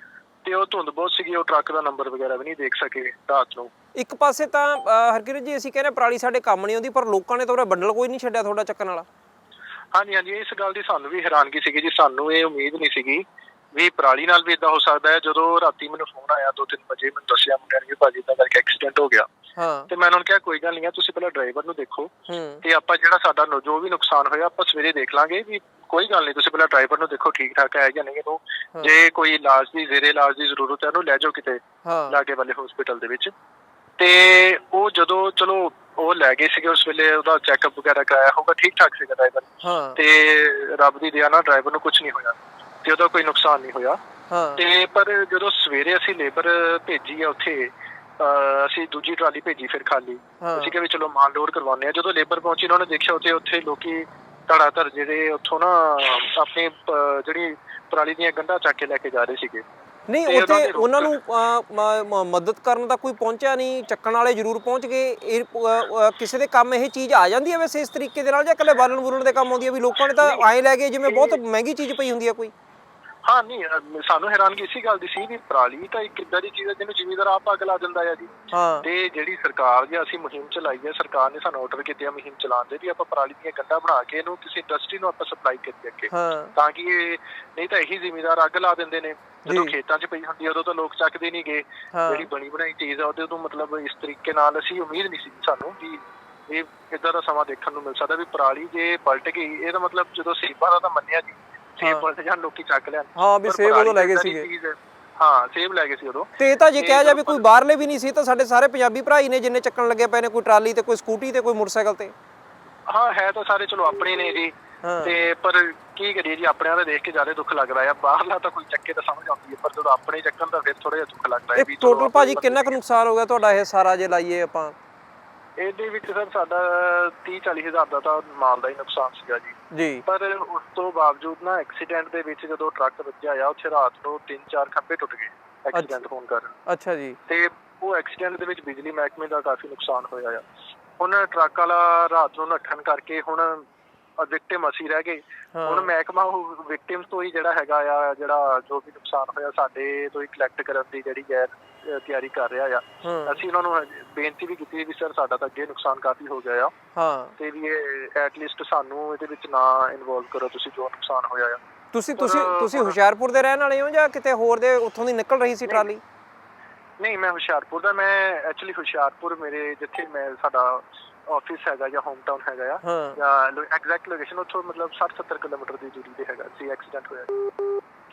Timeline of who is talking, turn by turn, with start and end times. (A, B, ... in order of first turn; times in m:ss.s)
0:00.4-0:03.7 A
0:04.0-0:09.0 B
0:09.9-0:19.3 A
0:19.6-0:19.9 B
0:19.9-0:33.3 A
0:22.3-0:22.6 B
0:31.8-0:32.2 B
0:34.0-0:44.0 A
0:39.6-0:40.0 B
0:44.3-0:44.6 B
0:44.6-0:59.6 A
0:50.4-0:50.7 B
1:00.1-1:12.5 B
1:00.3-1:01.1 A
1:10.0-1:10.4 A
1:11.0-1:11.4 A
1:13.2-1:47.4 A
1:18.5-1:18.8 B
1:26.1-1:26.5 B
1:29.5-1:29.7 B
1:31.9-1:32.3 B
1:43.2-1:44.5 B
1:46.4-1:52.1 B
1:52.9-2:02.8 A
1:54.8-1:55.1 B
2:01.6-2:04.7 B
2:05.6-2:16.5 A
2:09.7-2:10.0 B
2:15.7-2:16.0 B
2:16.6-2:17.2 B
2:17.3-2:20.4 A
2:21.0-2:23.6 A
2:24.2-2:36.7 A
2:25.5-2:25.9 B
2:33.0-2:33.4 B
2:37.0-2:37.3 B
2:37.4-2:41.6 A
2:41.9-2:46.0 B
2:42.2-2:43.0 A
2:47.0-2:57.5 A
2:52.8-2:53.2 B